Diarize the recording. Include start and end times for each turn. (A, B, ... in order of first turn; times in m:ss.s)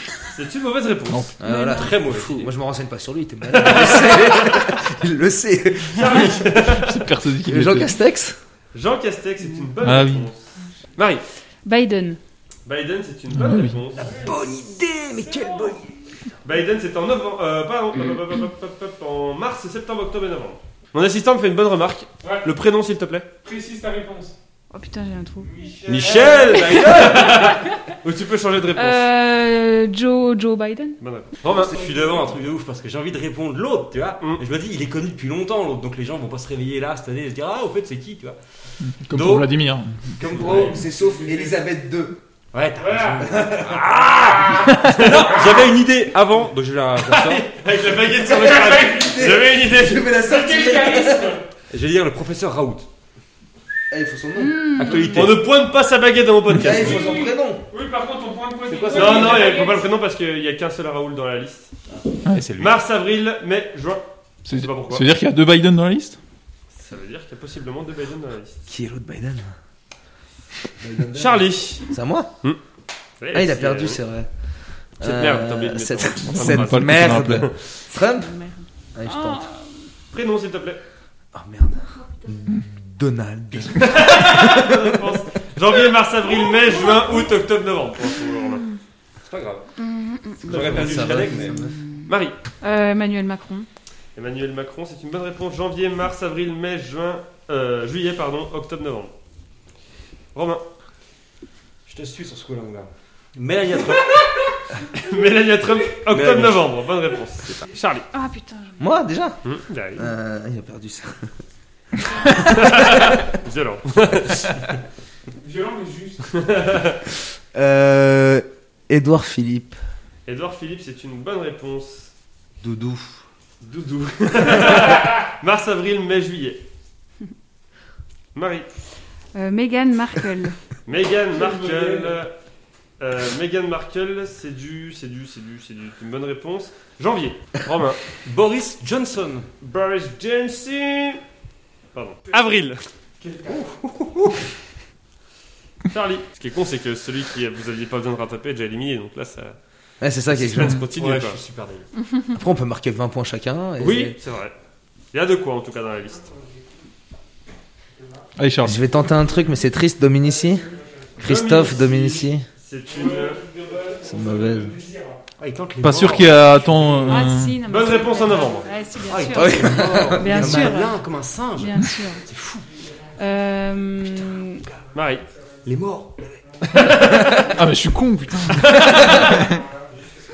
0:00.3-0:01.3 A
0:01.1-0:01.4 B
0:01.4-0:06.4 C
0:01.4-0:01.9 D
0:01.6-0:02.5 E
0:03.5-0:04.7 A
0:05.9-0:07.1 A
0:06.5-0:07.9 B
0:07.5-0:08.4 C
0:08.7-0:11.2 A
0:09.8-0:10.3 B
0:11.6-0:12.2 D
0:12.6-0:14.3 A
0:13.3-0:13.7 B
0:14.0-0:15.8 C
0:14.0-0:14.3 F
0:16.4-0:23.3 A
0:22.2-0:22.5 F
0:23.4-0:24.4 F
0:24.7-0:25.5 D
0:25.4-0:26.8 F
0:25.8-0:27.6 E
0:26.0-0:29.0 A
0:26.1-0:27.5 D
0:28.8-0:31.0 D
0:31.0-0:31.8 A
0:31.5-0:38.4 E
0:31.7-0:32.3 F
0:38.8-0:40.2 B
0:39.1-0:39.5 E
0:40.2-0:40.8 E
0:40.2-0:42.2 C
0:40.4-0:41.6 F
0:42.5-0:47.4 E
0:42.8-0:43.4 F
0:43.2-0:43.8 C
0:44.1-0:45.6 F
0:44.7-0:45.0 B
0:44.8-0:45.5 A
0:47.0-0:50.1 A
0:48.2-0:51.4 C
0:48.3-0:49.2 F
0:50.2-0:51.4 F
0:51.7-0:52.9 E
0:53.9-0:54.8 C
0:54.4-0:55.3 D
0:54.8-0:55.4 E
0:55.1-0:57.1 A
0:56.5-0:57.6 C
0:56.7-0:59.8 F
0:58.7-0:59.3 C
0:58.9-1:01.7 A
1:02.3-1:02.8 E
1:02.6-1:05.0 A
1:04.4-1:06.2 B
1:06.7-1:08.7 A
1:08.7-1:09.5 C
1:10.6-1:12.3 C
1:11.1-1:11.8 A
1:13.2-1:14.0 A
1:13.3-1:14.3 C
1:15.0-1:18.4 C
1:15.0-1:17.6 A
1:16.2-1:17.5 B
1:17.9-1:19.6 D
1:18.9-1:19.5 C
1:20.1-1:20.8 A
1:21.3-1:25.0 C
1:23.7-1:28.6 A
1:26.8-1:27.3 D
1:29.2-1:29.6 E
1:29.8-1:30.7 D
1:30.4-1:31.7 E
1:30.4-1:31.8 C
1:30.5-1:31.1 A
1:32.0-1:32.4 A
1:32.6-1:33.7 D
1:34.1-1:39.1 A
1:40.3-1:40.6 A
1:41.8-1:44.2 E
1:44.9-1:48.0 A
1:46.1-1:46.7 E
1:48.1-1:48.9 D
1:48.8-1:49.4 C
1:49.4-1:50.1 A
1:50.0-1:51.3 C
1:52.3-1:54.6 A
1:55.4-1:56.4 F
1:56.3-1:57.0 A
1:57.5-1:59.8 C
2:00.2-2:02.1 A
2:02.6-2:03.2 C
2:03.6-2:06.6 A
2:08.3-2:08.7 A
2:09.3-2:10.6 D
2:10.8-2:12.3 A
2:11.3-2:12.2 F
2:13.0-2:18.0 A
2:18.2-2:19.5 E
2:19.6-2:21.2 A
2:21.9-2:22.8 A
2:23.2-2:23.8 F
2:25.9-2:29.6 A
2:30.0-2:30.8 C
2:30.3-2:31.4 A
2:30.9-2:31.9 E
2:32.3-2:34.2 C
2:33.8-2:34.5 A
2:35.1-2:36.3 A
2:38.4-2:38.8 B
2:38.6-2:42.4 C
2:40.4-2:40.9 F
2:41.2-2:43.4 A
2:42.9-2:45.2 F
2:44.0-2:44.8 C
2:45.4-2:46.4 E
2:45.8-2:47.6 B
2:46.6-2:47.1 F
2:47.0-2:51.0 D
2:47.6-2:48.7 A
2:49.0-2:52.6 E
2:49.3-2:50.7 C
2:51.6-2:52.2 D
2:53.2-2:54.6 D
2:54.9-2:55.2 A
2:55.6-2:56.4 E
2:56.6-2:57.4 F
2:56.7-2:57.5 A
2:57.4-2:59.6 B
2:58.5-2:59.4 A
2:58.8-2:59.2 C
2:59.2-2:59.9 F